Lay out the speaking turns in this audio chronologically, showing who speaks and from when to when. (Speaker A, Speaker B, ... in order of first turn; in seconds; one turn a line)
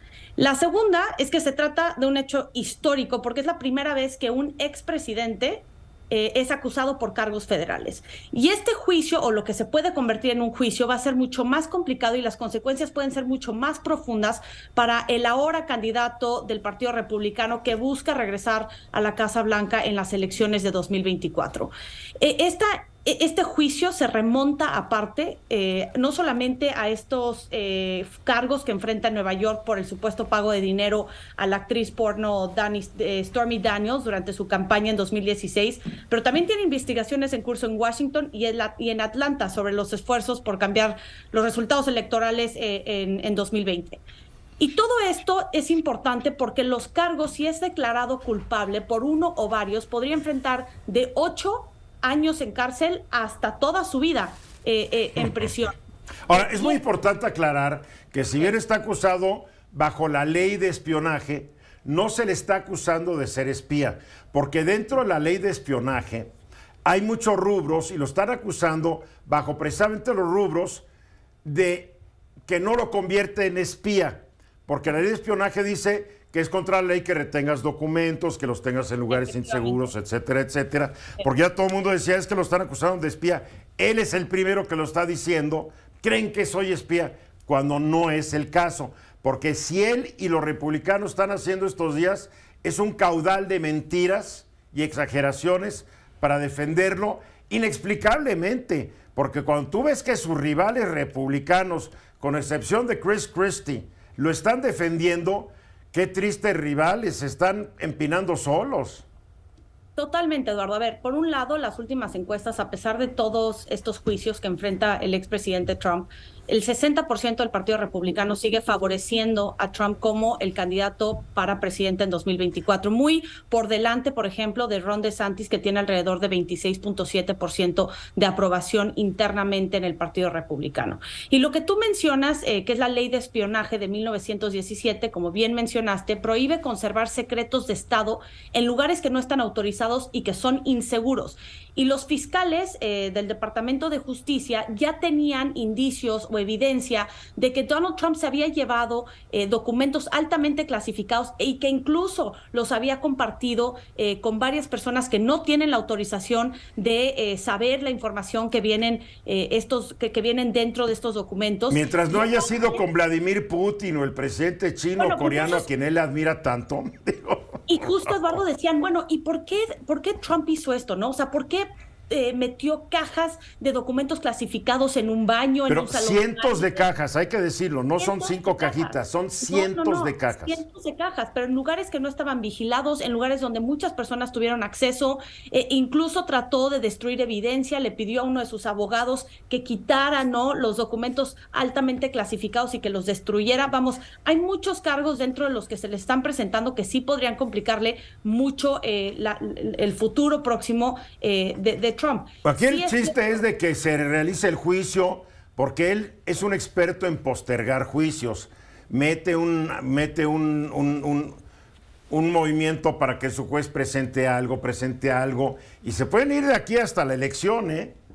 Speaker A: 0.4-44.0
Speaker A: 44.6-55.8
Speaker B: 55.2-55.5
Speaker B: 56.3-66.3
Speaker A: 56.3-56.8
Speaker B: 66.8-70.8
Speaker B: 71.4-109.0
Speaker A: 79.1-79.9
Speaker A: 110.0-162.8
Speaker B: 161.7-167.9
Speaker A: 165.0-165.7
Speaker A: 167.7-176.8
Speaker B: 175.7-180.6
Speaker A: 178.0-203.3
Speaker B: 202.4-211.4
Speaker B: 212.1-217.9